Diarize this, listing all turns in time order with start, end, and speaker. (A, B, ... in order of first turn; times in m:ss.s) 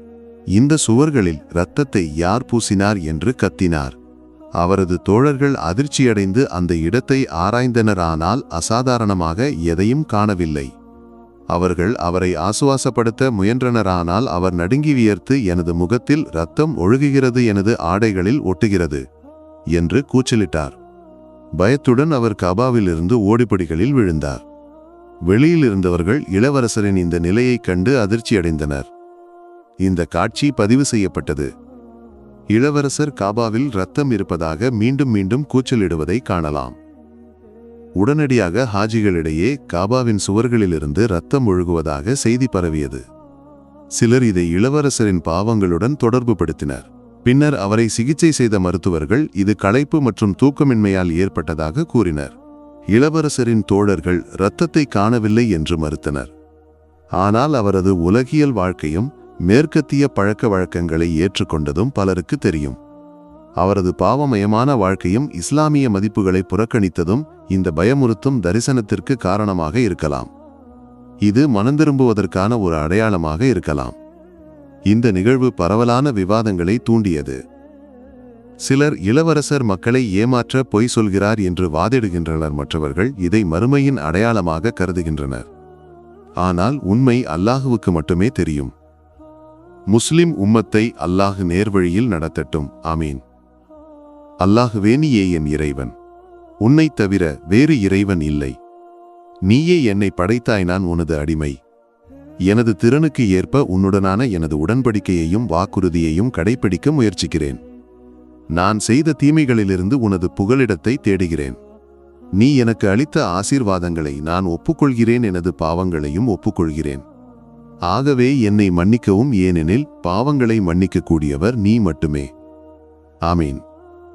0:00.5-0:03.9 A
0:04.6-0:10.7 A
0:11.5-0:19.0 A
0:19.7-0:20.8 A
0:21.6-0:24.4 A
0:25.3-0:28.9 A
0:29.8-0:31.5 A
0:32.5-0:36.8 A
0:38.0-0:43.0 A
0:44.0-0:52.3 A
0:52.9-0:56.3 A
0:57.2-1:02.8 A
1:03.6-1:10.3 A
1:11.2-1:14.0 A
1:14.9-1:17.4 A
1:18.6-1:25.4 A
1:26.4-1:28.7 A
1:29.9-1:33.2 A
1:34.4-1:35.9 A
1:36.6-1:38.6 A
1:39.5-1:41.6 A
1:42.5-1:47.6 A
1:48.5-1:51.6 A
1:52.4-1:57.0 A
1:57.9-2:02.3 A
2:03.3-2:03.6 A